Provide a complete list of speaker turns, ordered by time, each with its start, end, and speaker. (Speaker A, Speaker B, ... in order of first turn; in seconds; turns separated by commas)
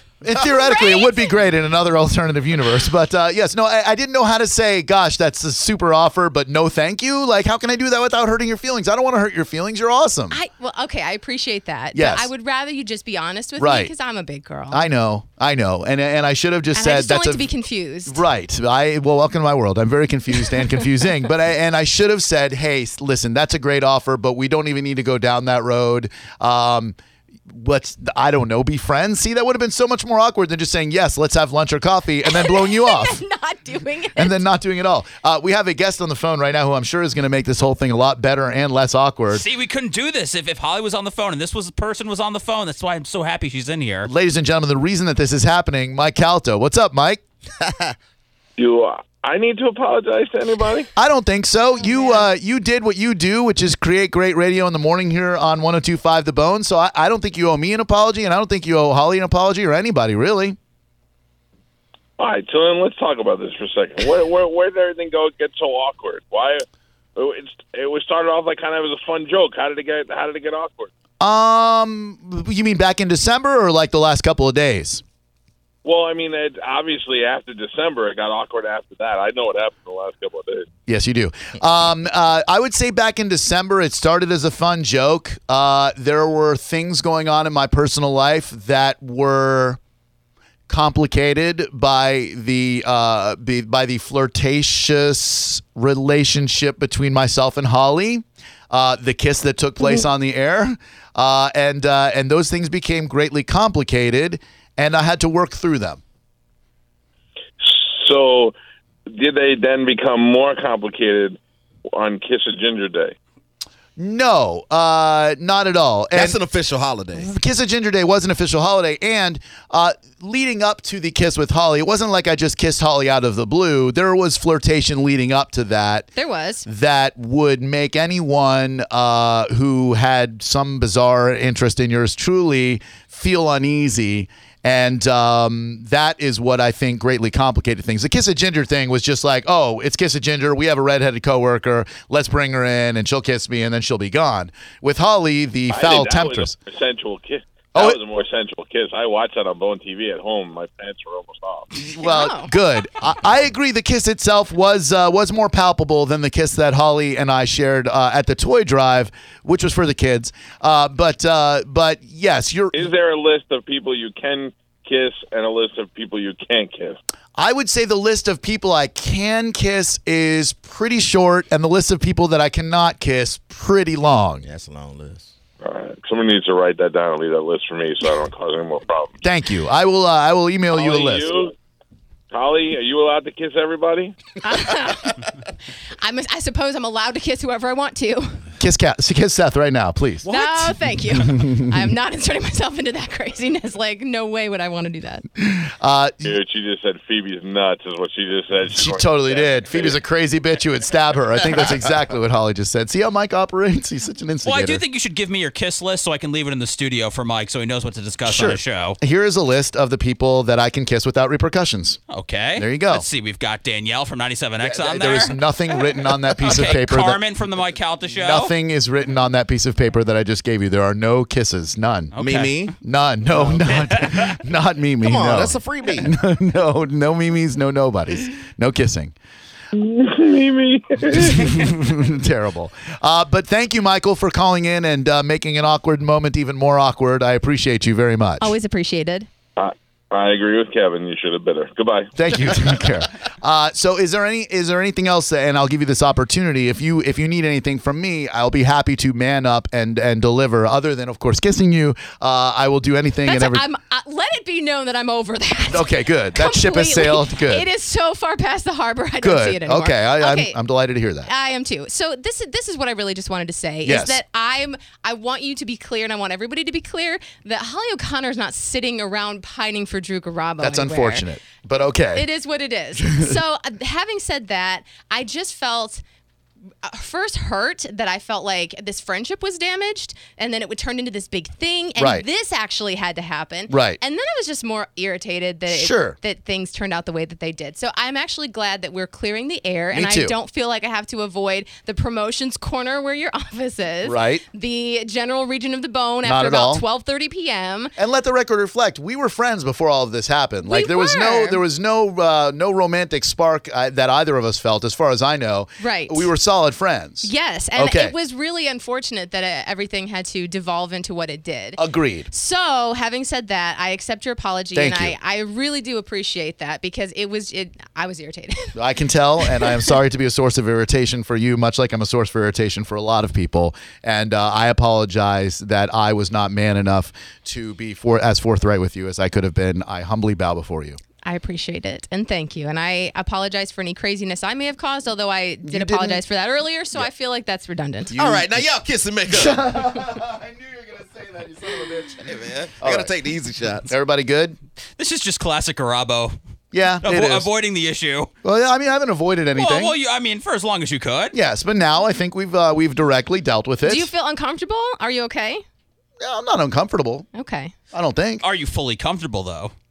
Speaker A: 0.2-10.4, Speaker B: 0.3-1.3, Speaker B: 10.3-14.8, Speaker A: 11.9-12.3, Speaker A: 13.6-13.9, Speaker A: 14.7-17.5, Speaker B: 16.7-18.2, Speaker A: 18.1-26.9, Speaker A: 27.5-33.2, Speaker B: 32.2-34.4, Speaker A: 34.1-39.4, Speaker C: 39.3-44.1, Speaker A: 44.0-47.2, Speaker D: 47.6-47.9, Speaker E: 48.6-50.9, Speaker A: 51.0-60.6, Speaker B: 51.9-52.2, Speaker E: 62.2-70.9, Speaker A: 71.2-75.0, Speaker E: 75.8-80.7, Speaker A: 80.9-89.8, Speaker A: 90.7-106.0, Speaker E: 107.6-108.5, Speaker E: 109.1-111.4, Speaker E: 111.9-113.1, Speaker A: 114.0-116.4, Speaker D: 116.1-117.3, Speaker A: 117.2-126.1, Speaker B: 126.2-126.7, Speaker A: 126.7-146.6, Speaker E: 145.7-151.8, Speaker A: 151.8-162.8, Speaker B: 152.0-152.5, Speaker E: 162.7-167.0, Speaker A: 167.4-174.4, Speaker D: 174.4-175.3, Speaker E: 175.6-179.2, Speaker A: 179.2-181.3, Speaker E: 180.7-181.5, Speaker E: 182.3-184.2, Speaker B: 184.4-185.2, Speaker B: 186.0-188.4, Speaker A: 188.6-191.8, Speaker B: 190.2-195.2, Speaker A: 195.4-196.3, Speaker E: 196.2-200.0, Speaker A: 198.7-204.8, Speaker C: 204.4-209.0, Speaker A: 208.2-212.0, Speaker C: 212.1-215.4, Speaker A: 212.5-213.1, Speaker A: 214.6-217.2, Speaker C: 216.4-218.5, Speaker A: 218.1-222.1, Speaker C: 222.1-222.7, Speaker D: 222.2-222.7, Speaker A: 222.8-229.1, Speaker C: 223.7-224.3, Speaker D: 225.0-226.1, Speaker E: 229.7-231.7, Speaker A: 231.1-238.5, Speaker B: 238.4-239.3, Speaker E: 239.6-242.1, Speaker A: 242.1-253.6, Speaker B: 253.2-260.6, Speaker A: 255.7-257.6, Speaker A: 259.2-261.3, Speaker B: 261.2-271.2, Speaker A: 263.8-264.2, Speaker A: 270.6-272.2, Speaker B: 272.1-276.0, Speaker A: 273.0-273.4, Speaker B: 276.8-297.9, Speaker A: 282.0-282.2, Speaker A: 283.7-284.0, Speaker A: 285.7-286.2, Speaker A: 289.9-290.4, Speaker A: 294.0-294.4, Speaker A: 296.2-296.8, Speaker A: 298.0-308.1, Speaker B: 300.7-301.6, Speaker B: 305.8-306.3, Speaker B: 307.2-318.7, Speaker A: 311.8-312.3, Speaker A: 314.7-315.1, Speaker A: 318.7-331.0, Speaker B: 319.4-319.9, Speaker B: 331.2-338.1, Speaker A: 335.6-336.2, Speaker A: 338.1-338.7, Speaker D: 338.1-339.8, Speaker A: 339.3-343.1, Speaker D: 342.2-343.9, Speaker A: 343.9-344.6, Speaker C: 345.0-346.3, Speaker A: 346.7-347.5, Speaker C: 347.0-348.3, Speaker A: 348.4-349.9, Speaker C: 349.6-351.3, Speaker A: 351.3-354.1, Speaker B: 353.8-355.6, Speaker A: 356.2-357.3, Speaker B: 357.3-357.7, Speaker A: 357.9-358.4, Speaker C: 358.4-359.7